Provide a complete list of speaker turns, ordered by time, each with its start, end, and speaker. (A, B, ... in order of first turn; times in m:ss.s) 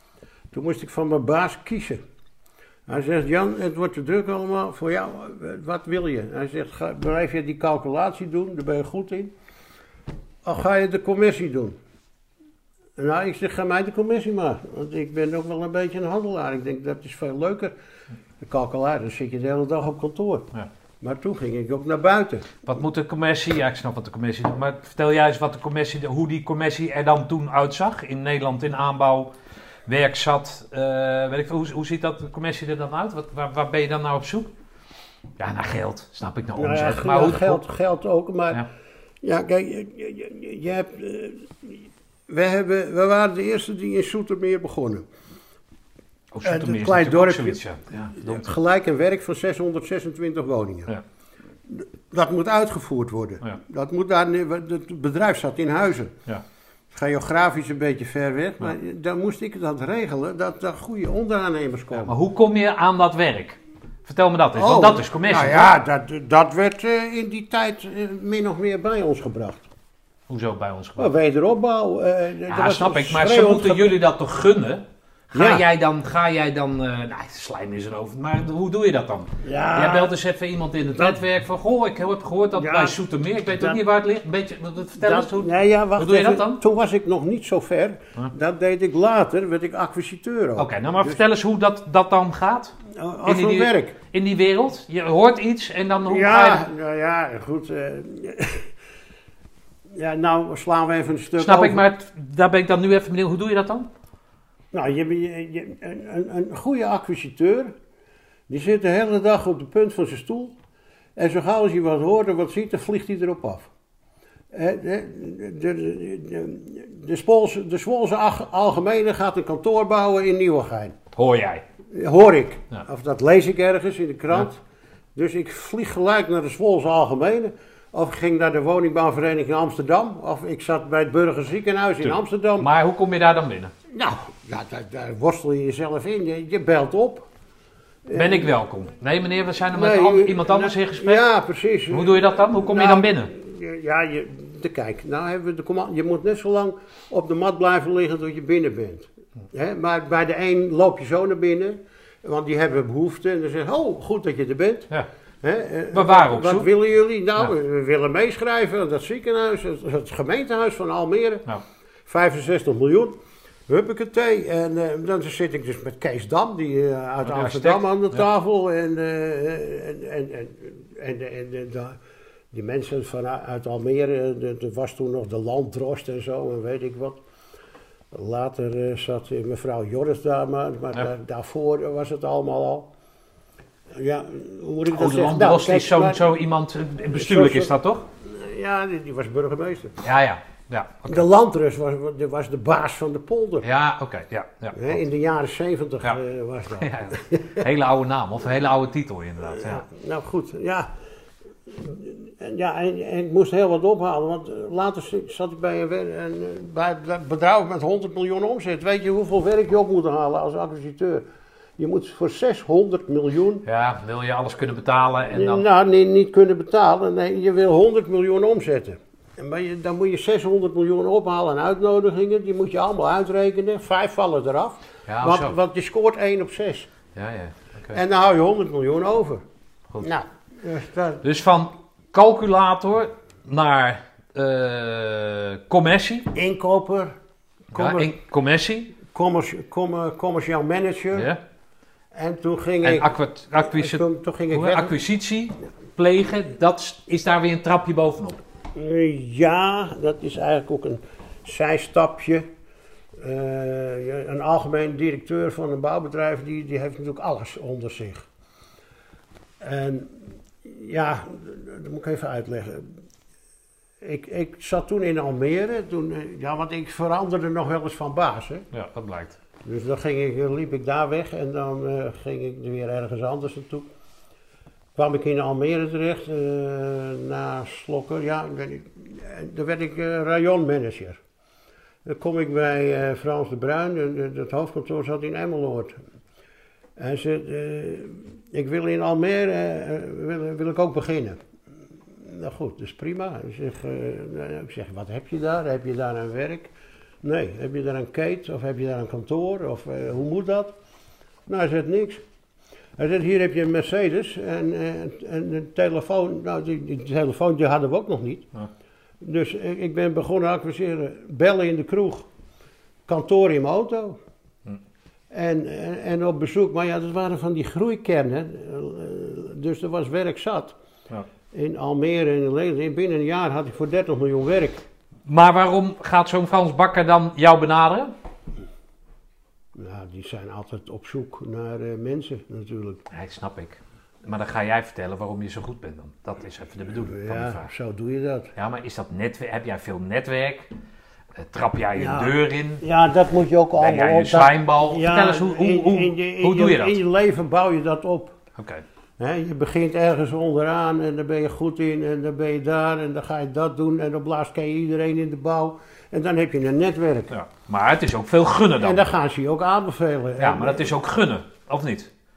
0:00.5-0:02.0 A
0:02.9-0:09.3 A
0:10.4-0:11.8 A
0:13.0-0:17.7 A
0:18.4-0:20.5 A
0:21.0-0:22.5 A
0:22.7-0:29.3 B
0:29.9-0:34.5 B
0:35.4-0:37.6 B
0:36.6-0:38.6 A
0:39.2-0:45.0 A
0:46.3-0:48.5 B
0:46.4-0:47.6 A
0:48.1-0:50.9 A
0:51.7-0:56.1 A
0:56.9-1:02.2 A
1:02.0-1:05.7 B
1:04.6-1:09.7 A
1:10.3-1:11.1 B
1:11.0-1:14.0 A
1:12.5-1:26.6 B
1:15.3-1:15.6 A
1:19.4-1:20.1 A
1:22.6-1:23.0 A
1:23.5-1:23.8 A
1:25.0-1:31.2 A
1:30.6-1:36.6 B
1:32.9-1:34.0 A
1:36.0-1:38.7 A
1:39.9-1:41.8 A
1:41.4-1:43.9 B
1:44.7-1:47.7 A
1:48.5-1:50.6 A
1:51.2-1:53.7 A
1:54.5-2:01.0 A
2:01.1-2:01.6 B
2:01.9-2:04.6 A
2:05.1-2:12.7 A
2:12.0-2:13.7 B
2:13.9-2:17.3 A
2:18.0-2:18.5 A
2:18.1-2:21.2 B
2:19.7-2:34.9 A
2:21.9-2:23.3 B
2:35.4-2:41.4 A
2:35.9-2:36.7 B
2:42.0-2:43.2 A
2:43.7-2:52.0 A
2:47.2-2:48.2 B
2:52.5-2:57.2 A
2:58.1-3:02.9 A
3:03.9-3:06.2 A
3:04.9-3:08.1 B
3:07.1-3:10.0 A
3:10.0-3:11.3 B
3:11.1-3:13.7 A
3:13.6-3:15.0 B
3:14.7-3:17.6 A
3:16.8-3:19.8 B
3:19.5-3:20.9 A
3:21.7-3:31.2 A
3:31.8-3:33.6 A
3:33.6-3:35.6 B
3:35.3-3:46.9 A
3:45.1-3:45.6 B
3:47.1-3:48.0 B
3:47.9-3:49.4 A
3:50.0-3:51.2 A
3:51.2-3:56.3 B
3:56.3-3:57.1 A
3:57.7-3:58.1 A
3:57.7-3:58.9 B
3:59.0-4:01.3 A
4:01.1-4:01.4 B
4:02.1-4:05.0 A
4:02.8-4:08.4 B
4:08.7-4:12.4 A
4:13.2-4:18.3 A
4:19.6-4:23.0 A
4:24.0-4:28.7 A
4:28.7-4:29.4 B
4:29.6-4:33.9 A
4:35.0-4:41.2 A
4:42.0-4:46.0 A
4:47.0-4:51.4 A
4:52.2-5:00.7 A
5:01.5-5:02.2 A
5:03.0-5:08.5 A
5:09.2-5:12.3 A
5:13.1-5:14.2 A
5:15.3-5:20.7 A
5:21.5-5:24.9 A
5:25.3-5:28.1 B
5:29.7-5:33.0 A
5:33.1-5:37.7 B
5:37.0-5:38.5 A
5:38.6-5:40.7 B
5:41.3-5:42.8 B
5:42.0-5:48.4 A
5:43.8-5:47.0 B
5:48.6-5:48.8 B
5:49.2-5:57.3 A
5:57.3-5:59.1 B
5:58.8-6:00.9 A
6:00.4-6:02.1 B